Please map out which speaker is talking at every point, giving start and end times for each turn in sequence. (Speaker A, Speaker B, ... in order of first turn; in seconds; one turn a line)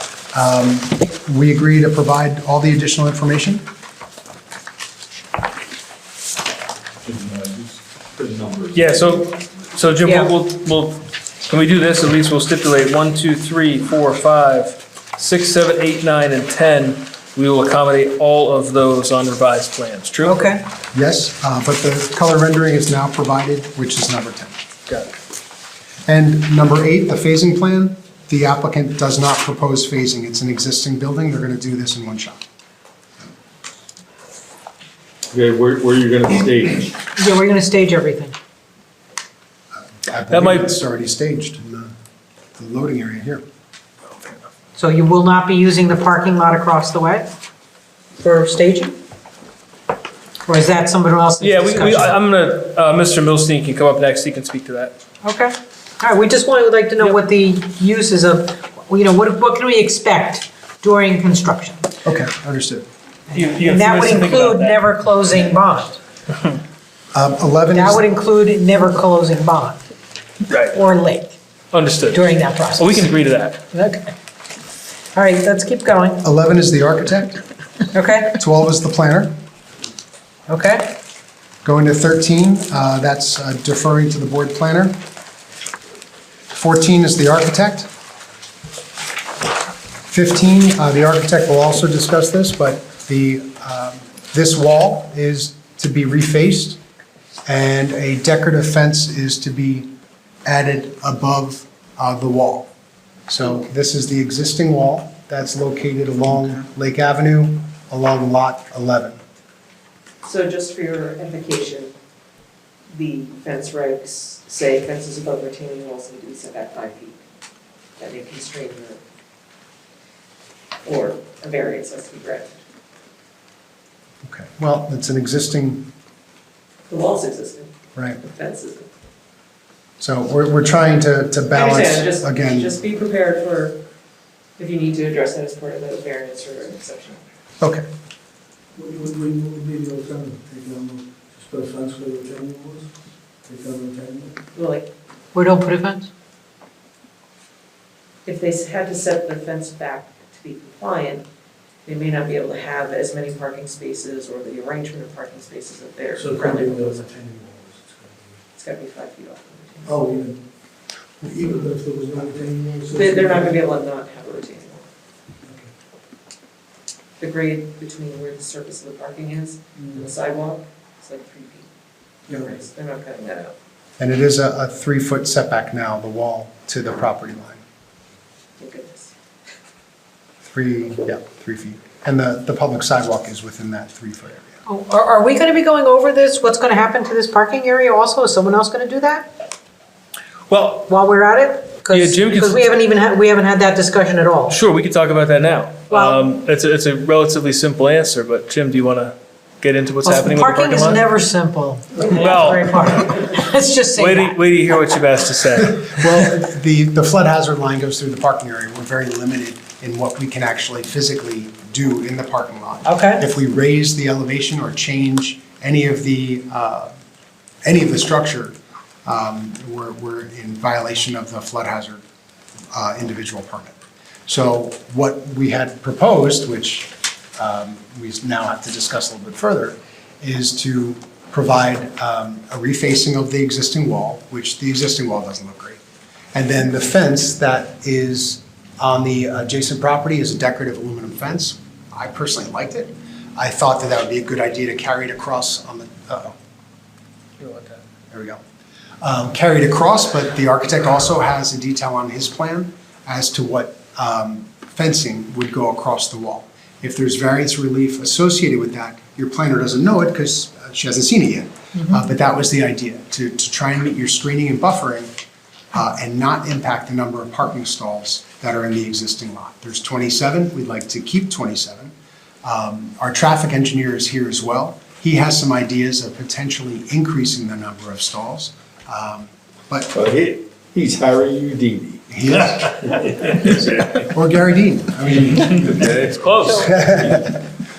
Speaker A: 0.3-3.6
Speaker B: 7.0-9.0
Speaker C: 8.7-20.6
Speaker D: 10.0-10.3
Speaker D: 20.2-20.6
Speaker A: 20.9-24.6
Speaker A: 26.1-32.4
Speaker B: 35.3-37.0
Speaker D: 37.1-38.3
Speaker A: 40.0-41.9
Speaker C: 40.3-40.7
Speaker A: 42.5-43.4
Speaker D: 44.8-47.3
Speaker D: 48.2-49.0
Speaker D: 50.5-52.2
Speaker C: 51.4-54.9
Speaker D: 55.2-61.9
Speaker A: 62.0-62.9
Speaker C: 63.3-64.8
Speaker D: 63.4-66.0
Speaker A: 67.1-68.0
Speaker D: 67.7-69.8
Speaker C: 70.5-70.7
Speaker D: 70.7-71.3
Speaker C: 71.7-72.2
Speaker D: 72.1-73.1
Speaker C: 72.8-73.6
Speaker D: 73.7-74.1
Speaker D: 75.1-76.2
Speaker A: 76.2-77.4
Speaker D: 77.9-78.4
Speaker A: 78.3-79.3
Speaker D: 80.5-81.0
Speaker A: 81.6-85.0
Speaker A: 86.5-87.9
Speaker A: 90.1-96.8
Speaker A: 97.5-99.9
Speaker A: 100.4-102.7
Speaker A: 103.3-109.2
Speaker E: 110.2-111.9
Speaker E: 112.9-117.2
Speaker E: 118.0-119.0
Speaker E: 120.8-122.6
Speaker A: 124.2-125.9
Speaker E: 126.9-128.9
Speaker A: 127.9-128.2
Speaker A: 130.0-132.7
Speaker E: 131.5-133.8
Speaker E: 134.6-137.2
Speaker A: 137.6-137.8
Speaker F: 138.7-142.9
Speaker F: 143.4-144.3
Speaker E: 144.5-144.9
Speaker D: 145.3-146.1
Speaker E: 148.2-151.2
Speaker E: 151.8-157.1
Speaker F: 156.1-158.3
Speaker E: 158.5-159.9
Speaker F: 159.8-160.4
Speaker A: 161.2-161.5
Speaker F: 161.4-163.6
Speaker E: 162.9-164.9
Speaker F: 165.4-165.7
Speaker E: 167.2-171.7
Speaker E: 172.3-173.5
Speaker A: 174.0-177.6
Speaker E: 178.6-179.1
Speaker A: 180.4-184.5
Speaker D: 184.7-189.3
Speaker D: 190.7-194.6
Speaker C: 191.9-192.6
Speaker C: 194.5-201.0
Speaker D: 195.9-196.3
Speaker D: 200.0-205.0
Speaker C: 202.1-203.2
Speaker C: 203.9-206.1
Speaker A: 205.6-216.9
Speaker D: 212.8-213.2
Speaker A: 217.6-222.0
Speaker A: 222.7-235.8
Speaker A: 236.3-246.3
Speaker C: 247.4-247.8
Speaker A: 248.1-248.4
Speaker A: 249.0-265.1
Speaker A: 265.7-271.9
Speaker A: 272.4-279.9
Speaker B: 279.9-282.1
Speaker A: 282.1-282.8
Speaker B: 283.0-283.8
Speaker A: 283.9-285.9
Speaker B: 285.4-287.0
Speaker C: 286.2-286.6
Speaker D: 286.4-286.8
Speaker A: 286.6-287.4